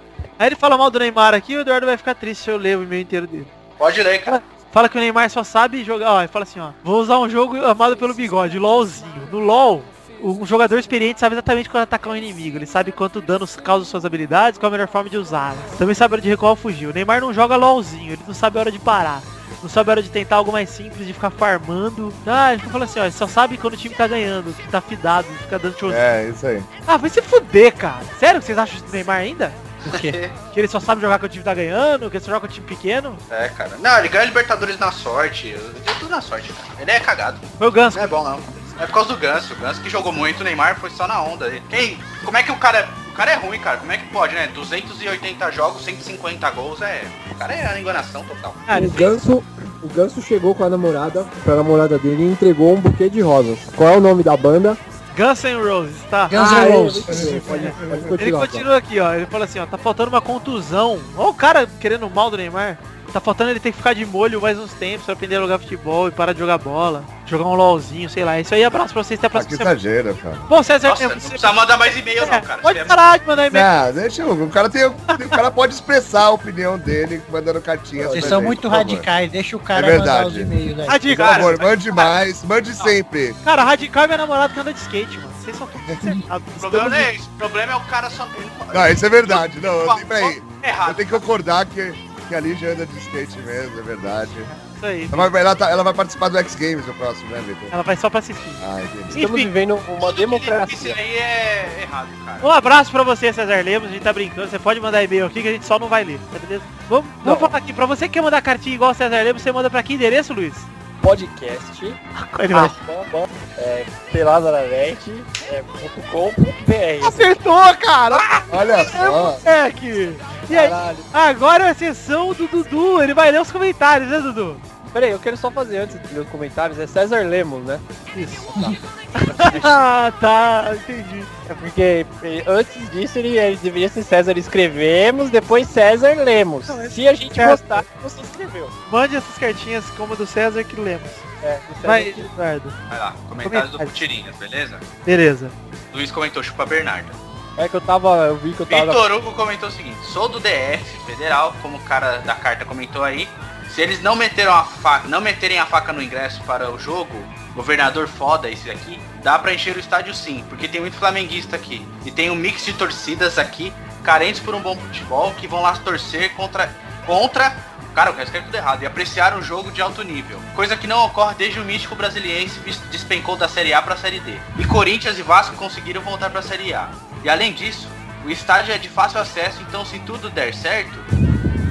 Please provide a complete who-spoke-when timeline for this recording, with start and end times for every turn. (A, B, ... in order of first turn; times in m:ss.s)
0:00.4-0:03.5 A
0:03.8-0:04.4 B
0:04.2-0:26.0 A
0:25.9-0:26.7 C
0:26.9-0:29.6 A
0:29.9-0:30.2 D
0:29.9-0:30.3 B
0:30.5-0:33.2 A
0:33.3-0:48.6 B
0:37.6-0:38.0 A
0:48.7-0:49.1 A
0:48.7-0:54.8 E
0:55.1-0:56.7 A
0:56.3-0:58.0 D
0:56.3-0:58.6 E
0:57.6-1:09.7 A
0:57.9-0:58.2 C
1:09.3-1:10.5 C
1:10.5-1:11.5 A
1:10.8-1:13.0 B
1:12.2-1:13.7 A
1:13.5-1:19.1 C
1:18.0-1:18.6 E
1:18.1-1:21.4 D
1:19.7-1:20.5 C
1:20.9-1:21.7 A
1:21.1-1:23.4 C
1:21.6-1:22.2 B
1:23.4-1:27.1 A
1:26.6-1:31.2 B
1:28.7-1:34.5 C
1:34.6-1:35.3 A
1:35.1-1:37.7 C
1:37.7-1:39.5 A
1:38.6-1:39.2 C
1:39.1-1:41.0 E
1:40.0-1:42.5 B
1:42.4-1:50.7 A
1:47.2-1:47.5 E
1:51.0-1:52.0 E
1:52.2-1:52.8 A
1:52.5-1:57.4 E
1:57.0-2:04.6 A
1:58.5-1:59.4 C
2:00.5-2:01.0 E
2:00.6-2:01.0 C
2:04.9-2:07.8 E
2:08.2-2:08.7 A
2:08.4-2:08.8 E
2:09.2-2:11.3 A
2:09.3-2:09.8 E
2:11.4-2:18.8 E
2:16.7-2:17.8 A
2:18.9-2:21.2 A
2:21.4-2:22.3 E
2:21.8-2:22.8 A
2:22.9-2:24.8 B
2:23.4-2:23.9 A
2:25.0-2:25.5 A
2:25.9-2:27.2 B
2:27.6-2:29.0 E
2:28.7-3:01.1 B